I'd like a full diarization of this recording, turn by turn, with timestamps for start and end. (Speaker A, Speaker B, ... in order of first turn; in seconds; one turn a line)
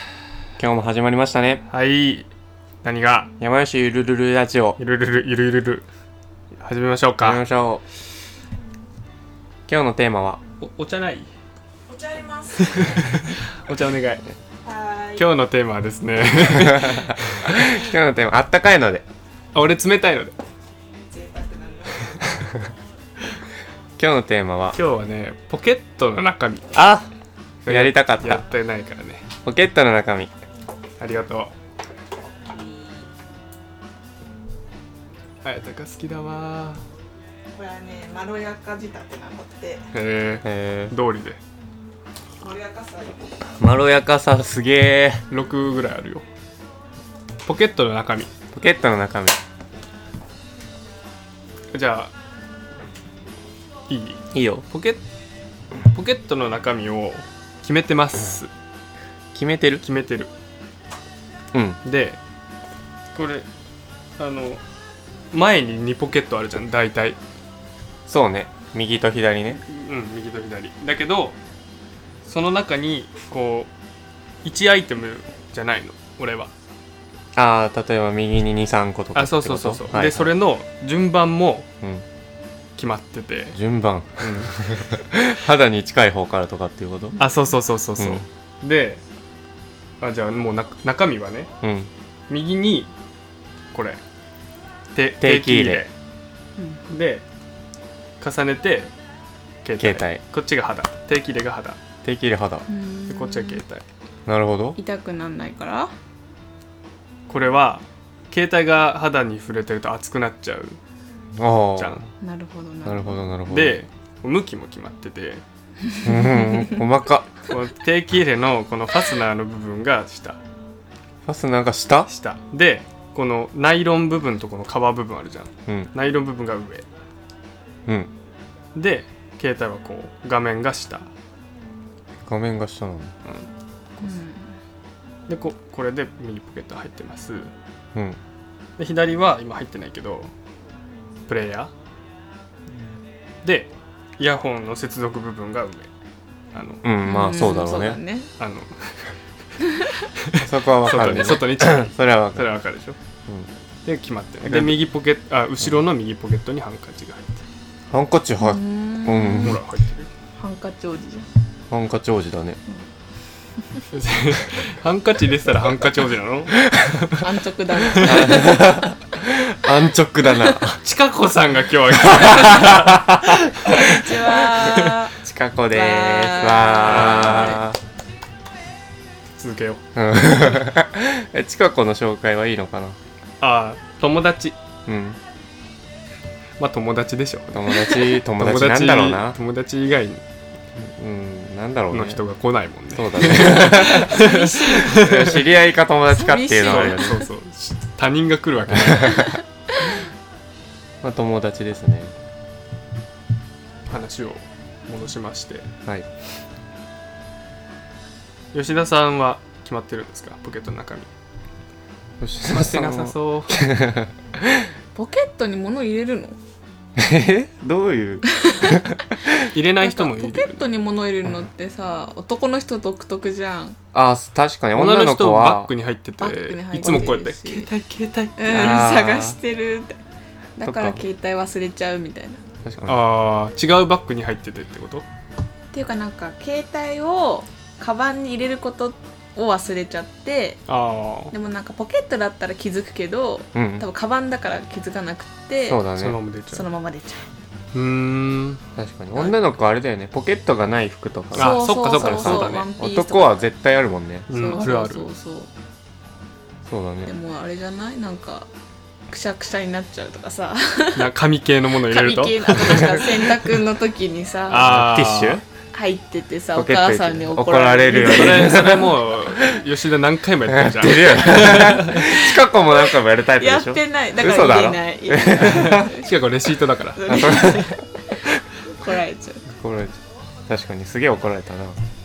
Speaker A: 0.6-1.6
Speaker B: 1.7-2.3
Speaker B: 2.8-3.3
Speaker A: 3.4-4.8
Speaker B: 4.8-5.9
Speaker B: 6.6-7.4
Speaker A: 7.2-7.8
Speaker A: 9.7-10.4
Speaker B: 10.6-11.3
Speaker C: 11.9-12.7
Speaker B: 12.5-14.2
Speaker C: 14.7-15.2
Speaker B: 15.2-17.7
Speaker A: 16.7-19.0
Speaker B: 19.5-20.4
Speaker C: 21.1-21.9
Speaker A: 24.0-24.8
Speaker B: 24.7-26.7
Speaker A: 26.7-27.1
Speaker B: 27.6-29.2
Speaker A: 27.7-28.4
Speaker A: 29.4-30.3
Speaker B: 31.0-31.5
Speaker B: 35.4-36.8
Speaker C: 37.5-39.9
Speaker B: 39.9-41.4
Speaker A: 40.4-40.9
Speaker C: 42.4-43.2
Speaker A: 43.6-45.2
Speaker B: 45.3-46.2
Speaker B: 47.5-48.3
Speaker A: 48.5-49.4
Speaker B: 51.7-52.1
Speaker B: 53.9-55.0
Speaker A: 54.3-54.6
Speaker B: 55.9-58.5
Speaker A: 59.3-59.8
Speaker B: 59.8-60.3
Speaker A: 61.5-61.8
Speaker B: 61.8-62.2
Speaker B: 63.1-63.5
Speaker B: 64.2-64.6
Speaker B: 65.3-67.2
Speaker A: 68.1-69.6
Speaker B: 69.7-71.4
Speaker B: 72.2-73.7
Speaker B: 74.4-76.5
Speaker A: 77.3-80.3
Speaker B: 79.1-81.7
Speaker B: 82.8-83.6
Speaker A: 83.5-87.2
Speaker B: 87.2-89.0
Speaker A: 88.0-88.2
Speaker B: 90.0-91.5
Speaker A: 91.6-91.9
Speaker B: 92.3-92.9
Speaker B: 93.7-94.0
Speaker B: 94.9-95.9
Speaker A: 95.2-95.8
Speaker B: 96.9-97.2
Speaker B: 98.2-98.9
Speaker B: 99.6-101.8
Speaker A: 99.8-100.2
Speaker A: 102.0-102.6
Speaker C: 102.7-103.6
Speaker B: 103.1-103.8
Speaker A: 104.2-104.8
Speaker C: 104.8-105.9
Speaker B: 107.3-110.8
Speaker A: 111.4-112.0
Speaker B: 111.8-112.0
Speaker C: 112.2-113.2
Speaker A: 112.8-113.8
Speaker B: 113.5-115.4
Speaker C: 115.9-116.8
Speaker A: 116.0-117.3
Speaker B: 117.5-120.4
Speaker A: 121.2-122.1
Speaker B: 122.1-126.8
Speaker B: 128.8-131.1
Speaker A: 132.2-133.1
Speaker B: 133.2-134.1
Speaker C: 134.0-134.5
Speaker B: 135.3-137.5
Speaker B: 138.8-140.3
Speaker B: 141.3-141.7
Speaker B: 143.4-145.9
Speaker B: 146.5-146.8
Speaker A: 146.8-148.0
Speaker C: 147.0-148.3
Speaker B: 148.4-149.1
Speaker C: 149.6-149.9
Speaker B: 150.2-153.0
Speaker A: 150.4-152.5
Speaker B: 153.8-157.4
Speaker A: 154.4-154.8
Speaker A: 157.9-159.6
Speaker C: 158.4-159.6
Speaker B: 159.4-160.1
Speaker C: 160.4-161.2
Speaker A: 161.7-162.6
Speaker B: 163.9-167.2
Speaker C: 167.1-168.7
Speaker A: 168.0-170.8
Speaker B: 170.8-174.9
Speaker A: 172.1-173.0
Speaker C: 173.7-175.2
Speaker A: 175.2-177.8
Speaker C: 175.7-177.6
Speaker B: 176.8-177.6
Speaker B: 179.3-179.8
Speaker A: 179.9-183.0
Speaker B: 183.4-184.6
Speaker A: 184.8-185.2
Speaker B: 186.6-190.2
Speaker A: 187.5-189.4
Speaker A: 190.8-192.2
Speaker B: 191.9-195.4
Speaker A: 192.9-194.1
Speaker C: 193.7-195.0
Speaker A: 194.9-197.2
Speaker C: 196.1-197.2
Speaker B: 196.6-199.3
Speaker A: 199.0-199.3
Speaker A: 201.0-202.1
Speaker B: 203.9-205.7
Speaker B: 208.5-211.1
Speaker A: 212.2-214.6
Speaker B: 212.5-213.7
Speaker C: 214.9-216.4
Speaker A: 217.0-219.3
Speaker C: 218.3-218.9
Speaker B: 219.4-220.7
Speaker C: 219.8-223.8
Speaker A: 223.9-225.7
Speaker B: 224.8-228.8
Speaker C: 226.2-227.7
Speaker C: 228.4-230.0
Speaker A: 228.5-229.4
Speaker C: 230.6-232.4
Speaker A: 230.6-231.0
Speaker A: 232.6-233.0
Speaker B: 232.8-235.0
Speaker C: 235.7-240.6
Speaker B: 240.7-241.3
Speaker C: 241.3-245.8
Speaker A: 243.5-243.8
Speaker A: 245.7-246.2
Speaker B: 246.0-246.7
Speaker C: 246.5-247.3
Speaker B: 247.7-248.6
Speaker A: 248.8-254.3
Speaker B: 251.3-252.7
Speaker C: 251.3-253.4
Speaker B: 254.3-255.1
Speaker C: 254.3-255.5
Speaker A: 256.7-257.1
Speaker C: 257.1-258.5
Speaker C: 259.1-261.1
Speaker B: 261.0-263.0
Speaker C: 261.8-264.8
Speaker B: 264.5-265.4
Speaker A: 264.5-265.4
Speaker C: 265.7-268.9
Speaker A: 266.6-269.4
Speaker B: 267.9-272.0
Speaker A: 270.5-275.9
Speaker C: 272.7-276.1
Speaker B: 275.4-277.1
Speaker C: 276.9-279.4
Speaker A: 277.1-277.8
Speaker A: 279.6-281.8